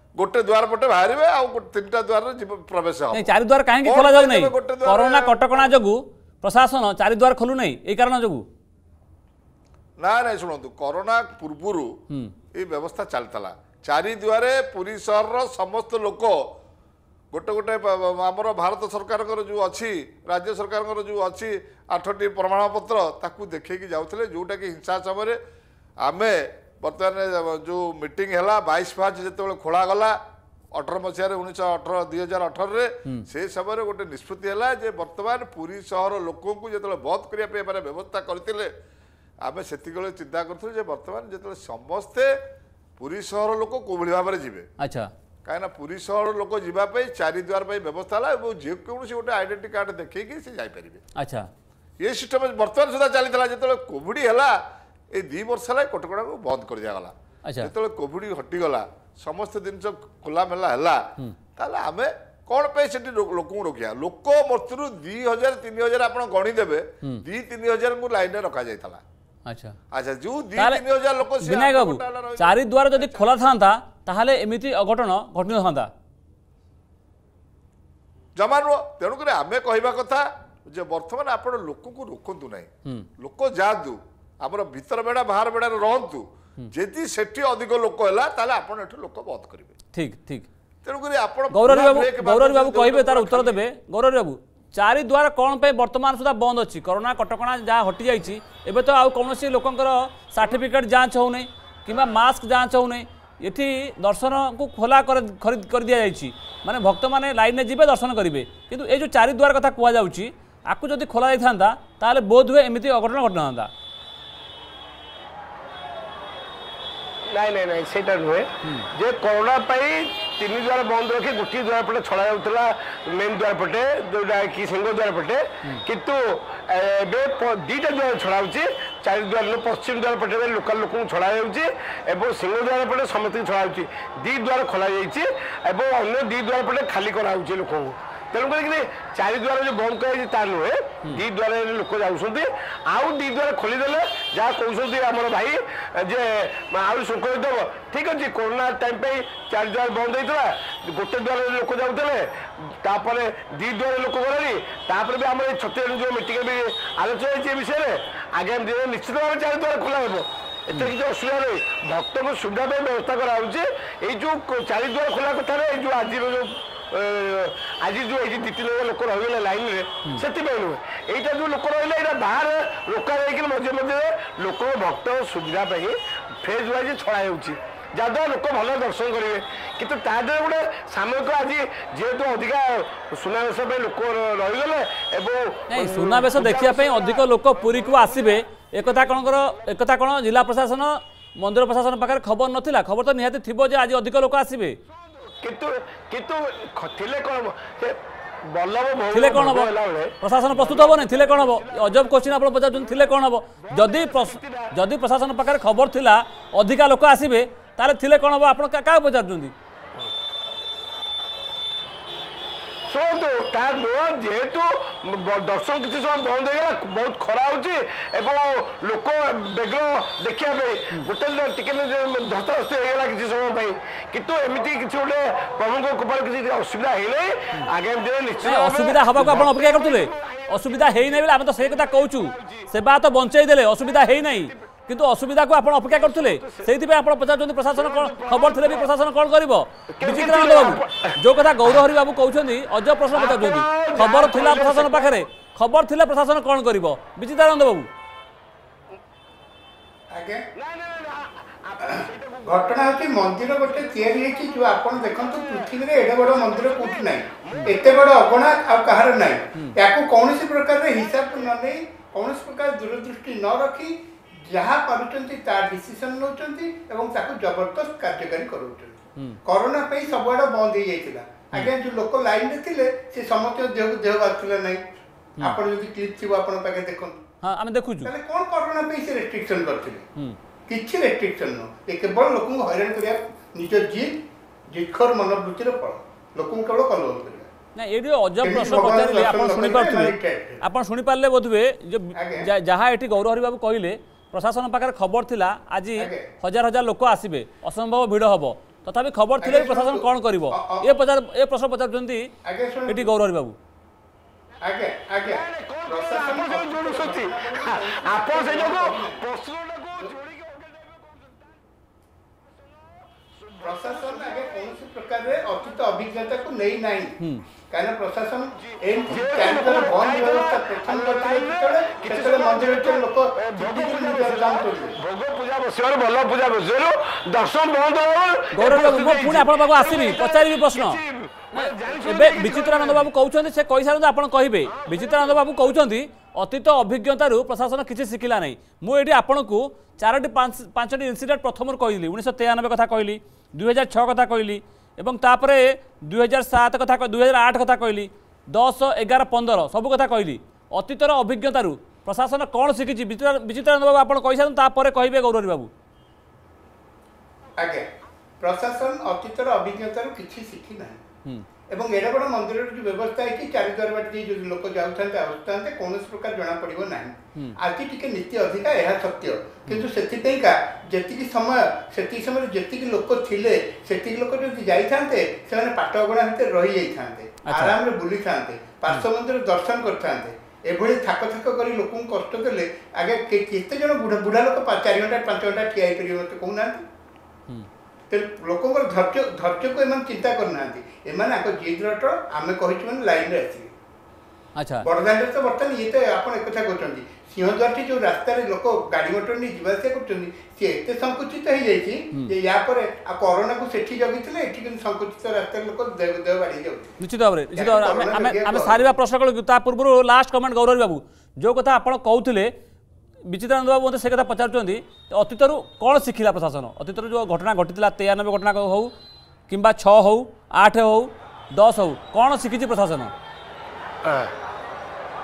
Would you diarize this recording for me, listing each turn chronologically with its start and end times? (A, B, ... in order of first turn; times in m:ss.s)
0:00.2-0:03.3 A
0:03.1-0:08.4 B
0:03.8-0:05.7 A
0:10.0-0:11.9 A
0:12.5-0:16.4 A
0:17.3-0:25.4 A
0:26.0-0:30.2 A
0:30.7-0:38.7 A
0:39.4-0:42.3 A
0:43.0-0:44.7 A
0:44.8-0:45.1 B
0:45.4-0:51.0 A
0:51.2-0:51.5 B
0:52.0-0:54.6 A
0:55.1-1:09.0 A
0:57.4-0:57.7 B
1:09.5-1:09.8 B
1:09.9-1:13.3 A
1:10.6-1:10.8 B
1:11.4-1:15.9 B
1:18.4-1:29.8 A
1:29.9-1:30.5 B
1:30.8-1:33.6 A
1:31.5-1:53.7 B
1:57.3-3:08.4 C
1:58.6-1:58.9 B
3:05.7-3:14.8 B
3:15.1-3:23.0 C
3:19.1-3:29.5 B
3:23.6-3:24.7 C
3:32.9-3:52.7 C
3:48.4-4:07.9 B
3:54.0-3:54.6 C
3:55.9-3:56.7 C
3:57.7-3:58.9 C
3:59.9-4:01.2 C
4:03.1-4:05.2 C
4:10.1-4:10.4 D
4:10.5-4:18.4 C
4:11.8-4:34.8 D
4:35.4-4:37.2 D
4:37.4-4:38.1 B
4:38.0-4:40.0 D
4:40.7-4:44.1 D
4:44.7-4:47.5 D
4:47.7-5:02.3 B
4:48.4-4:50.6 D
4:52.1-4:52.5 D
4:56.0-4:56.3 D
4:59.4-5:00.9 D
5:02.4-5:03.1 D
5:02.9-5:03.6 B
5:04.6-5:09.2 D
5:05.2-5:11.5 C
5:13.2-5:14.7 C
5:13.6-5:17.2 D
5:17.2-5:17.4 B
5:17.7-5:25.0 D
5:18.6-5:33.1 C
5:28.5-5:31.0 B
5:31.5-5:55.7 B
5:34.7-5:35.4 C
5:57.6-5:57.9 D
5:58.4-6:01.0 D
6:01.7-6:26.8 D
6:17.4-6:17.8 B
6:28.1-6:33.7 D
6:34.6-6:34.9 B
6:34.8-6:47.0 D
6:47.0-6:52.5 B
6:47.6-6:48.9 D
6:53.3-6:58.9 B
6:59.5-7:03.1 B
7:04.0-7:04.3 C